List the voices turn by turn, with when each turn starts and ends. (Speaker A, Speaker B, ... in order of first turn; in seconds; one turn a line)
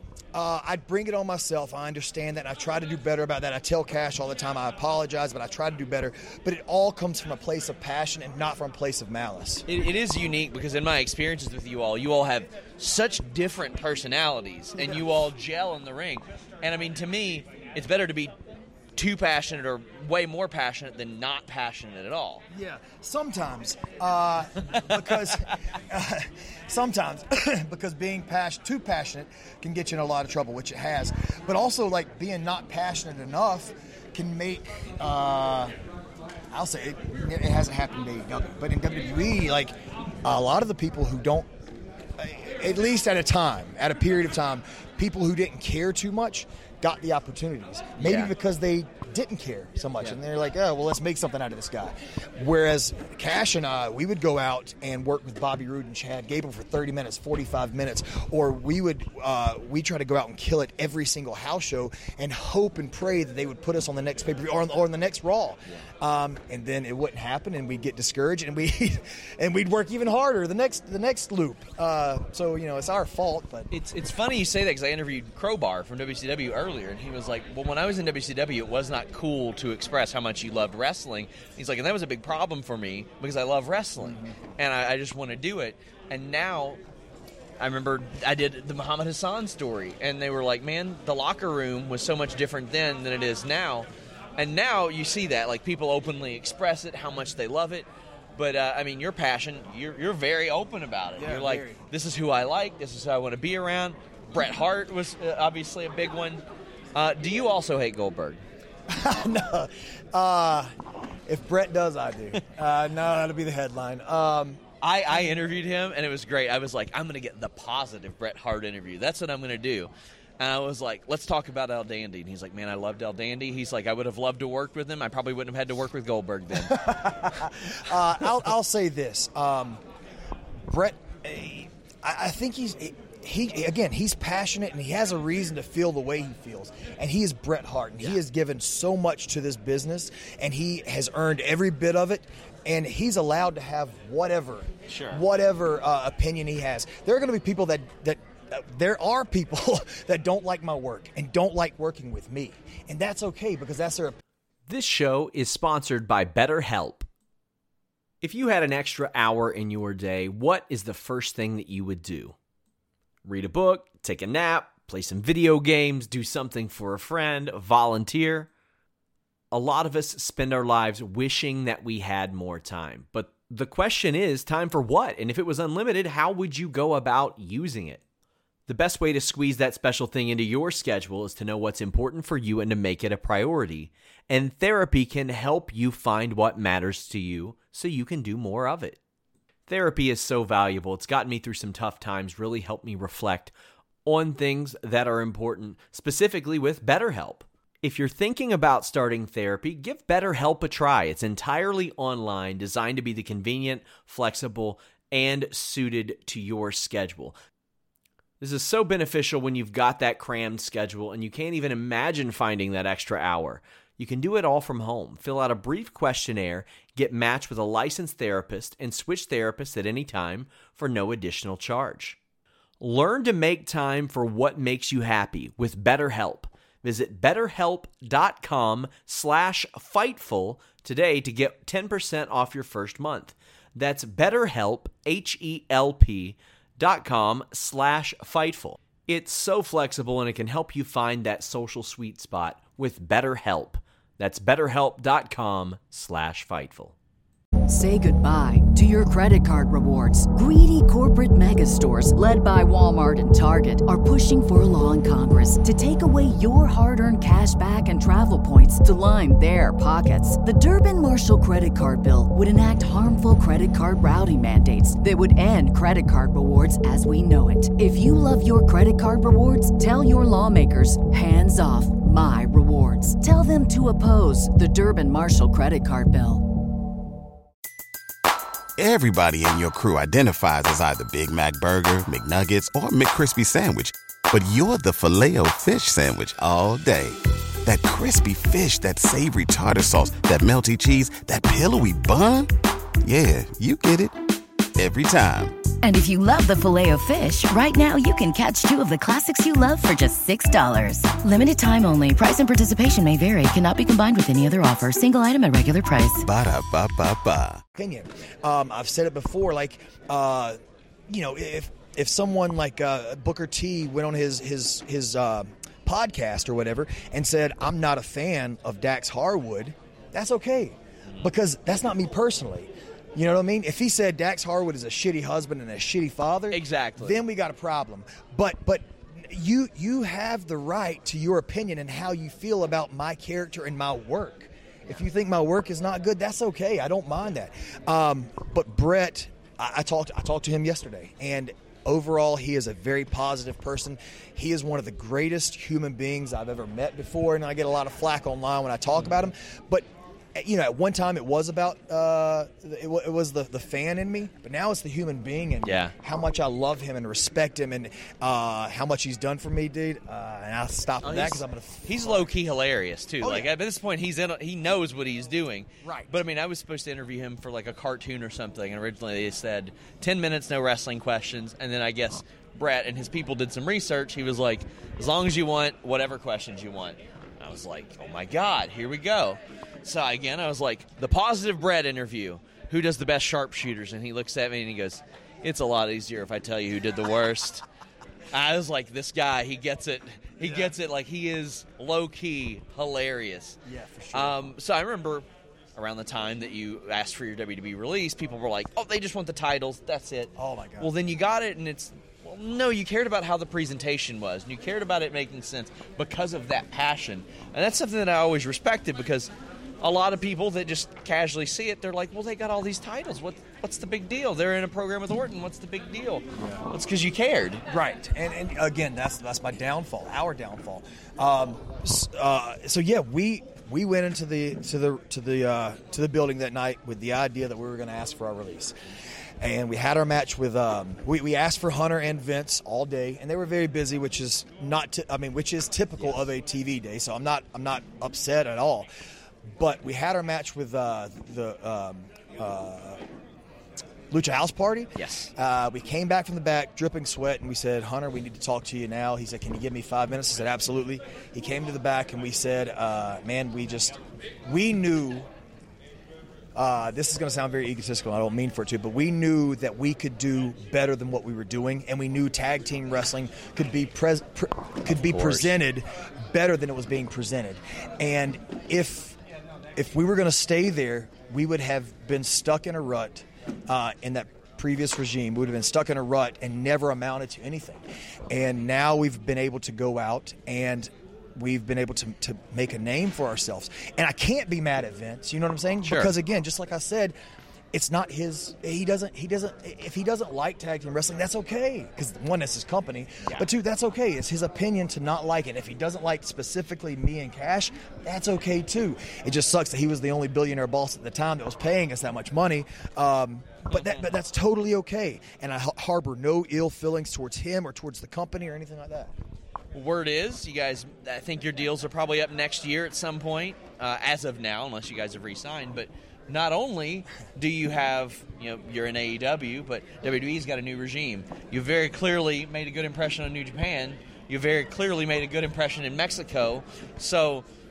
Speaker A: 0.3-9.7
Speaker B: 9.7-18.3
Speaker A: 14.8-15.1
Speaker B: 18.9-22.4
Speaker A: 22.5-35.7
Speaker B: 24.6-25.5
Speaker A: 36.5-41.5
Speaker A: 42.2-73.7
Speaker B: 48.0-48.3
Speaker B: 73.7-86.8
Speaker A: 84.0-84.4
Speaker B: 87.6-106.4
Speaker A: 101.2-101.8
Speaker B: 106.9-108.4
Speaker A: 108.9-110.7
Speaker A: 111.2-114.6
Speaker B: 114.8-127.3
Speaker A: 126.6-129.8
Speaker A: 130.7-154.2
Speaker B: 144.9-145.2
Speaker C: 154.7-157.1
Speaker C: 158.2-162.3
Speaker C: 163.2-168.5
Speaker C: 169.5-178.0
Speaker C: 178.7-189.0
Speaker C: 189.7-193.5
Speaker C: 194.0-207.3
Speaker C: 208.4-222.2
Speaker C: 222.8-246.9
Speaker D: 247.7-276.4
Speaker E: 278.8-292.5
Speaker E: 293.0-294.1
Speaker E: 294.8-295.5
Speaker F: 295.8-306.2
Speaker E: 306.2-307.6
Speaker A: 307.7-362.3
Speaker B: 326.5-327.2
Speaker B: 355.6-355.9
Speaker B: 361.0-387.6
Speaker A: 363.2-363.5
Speaker A: 365.8-366.2
Speaker B: 388.3-393.6
Speaker A: 390.4-390.7
Speaker A: 393.6-394.6
Speaker B: 394.1-417.6
Speaker A: 400.4-401.0
Speaker A: 417.7-428.7
Speaker A: 429.4-438.9
Speaker A: 439.5-443.0
Speaker A: 444.1-455.3
Speaker B: 444.9-445.3
Speaker A: 456.6-469.2
Speaker B: 464.9-465.6
Speaker A: 469.8-487.1
Speaker B: 485.8-486.1
Speaker A: 487.7-509.1
Speaker B: 493.2-493.5
Speaker B: 509.7-527.4